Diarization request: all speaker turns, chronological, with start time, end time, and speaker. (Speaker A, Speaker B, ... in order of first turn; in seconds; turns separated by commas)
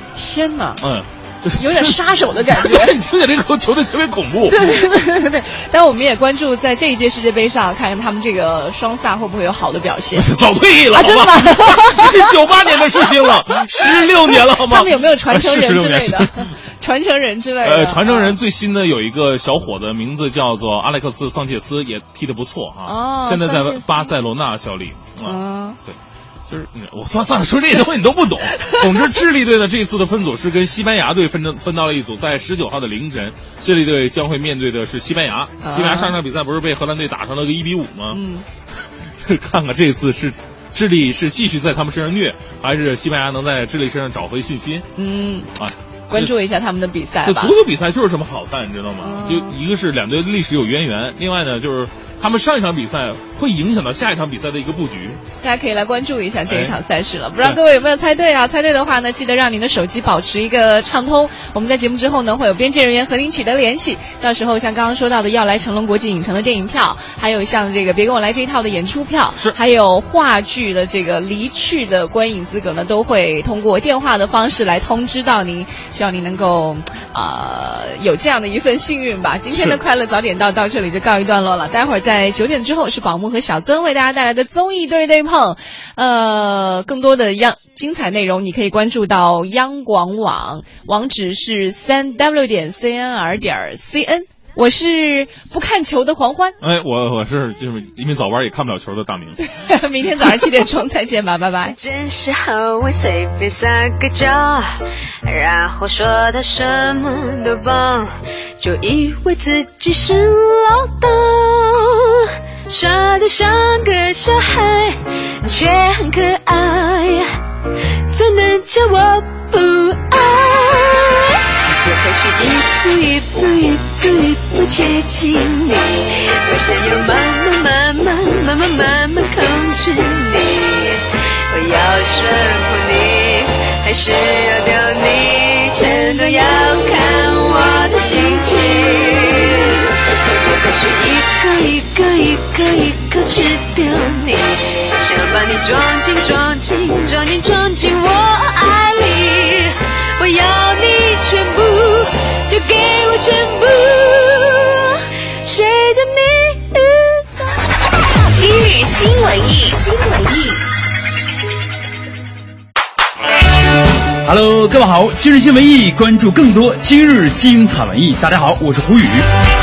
Speaker A: 0.1-0.8, Speaker B: 0.8-2.0, Speaker A: 1.6-2.9, Speaker B: 2.5-4.8, Speaker A: 4.5-10.3, Speaker B: 10.2-16.5, Speaker A: 10.9-12.1, Speaker A: 13.7-18.3, Speaker B: 17.6-25.9, Speaker A: 22.9-23.9, Speaker A: 25.2-25.8, Speaker B: 26.5-38.2, Speaker A: 35.6-36.1, Speaker A: 38.1-38.4, Speaker B: 39.2-44.8, Speaker A: 45.0-45.5, Speaker B: 45.6-46.3, Speaker A: 46.1-47.5, Speaker B: 47.2-55.2, Speaker A: 49.0-49.5, Speaker A: 55.4-96.5, Speaker B: 56.5-56.7, Speaker B: 96.6-99.4, Speaker A: 99.7-101.7, Speaker C: 101.6-111.9, Speaker C: 112.7-117.4, Speaker C: 118.1-154.8, Speaker C: 155.4-157.2, Speaker C: 158.3-160.5, Speaker D: 164.2-169.2